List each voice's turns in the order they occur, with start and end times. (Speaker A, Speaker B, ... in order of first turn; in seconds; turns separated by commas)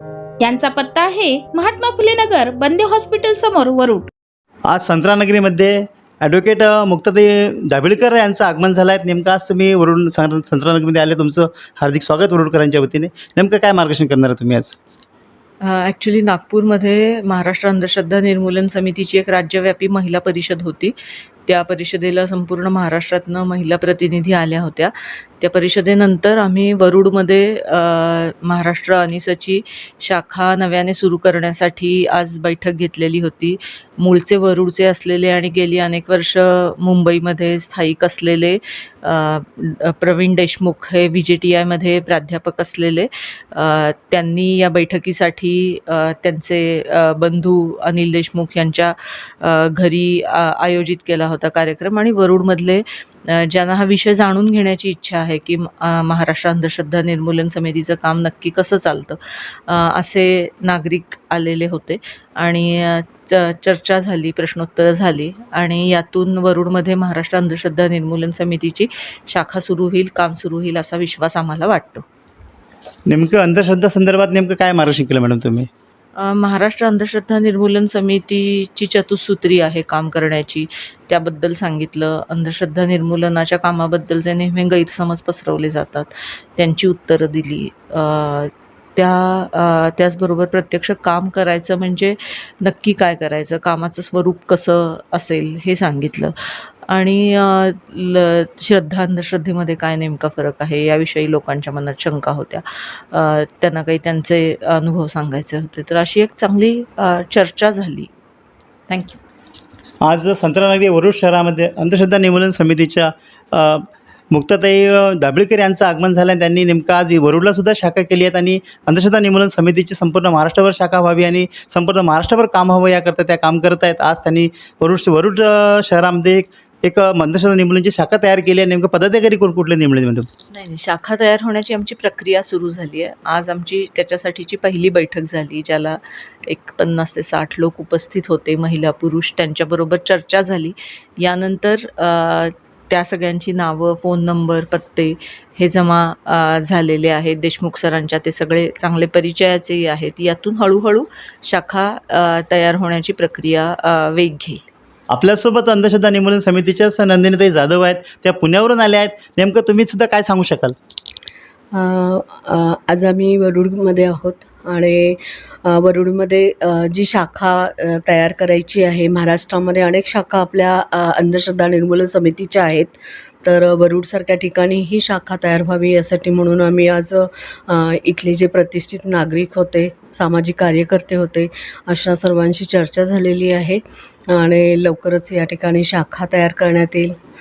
Speaker A: 0.4-4.1, Speaker B: 4.7-14.8, Speaker C: 15.6-20.9, Speaker C: 21.4-72.0, Speaker B: 73.1-75.7, Speaker C: 76.2-108.1, Speaker C: 108.9-109.2, Speaker B: 110.0-130.3, Speaker C: 130.5-154.7, Speaker B: 155.1-160.8, Speaker D: 161.7-187.2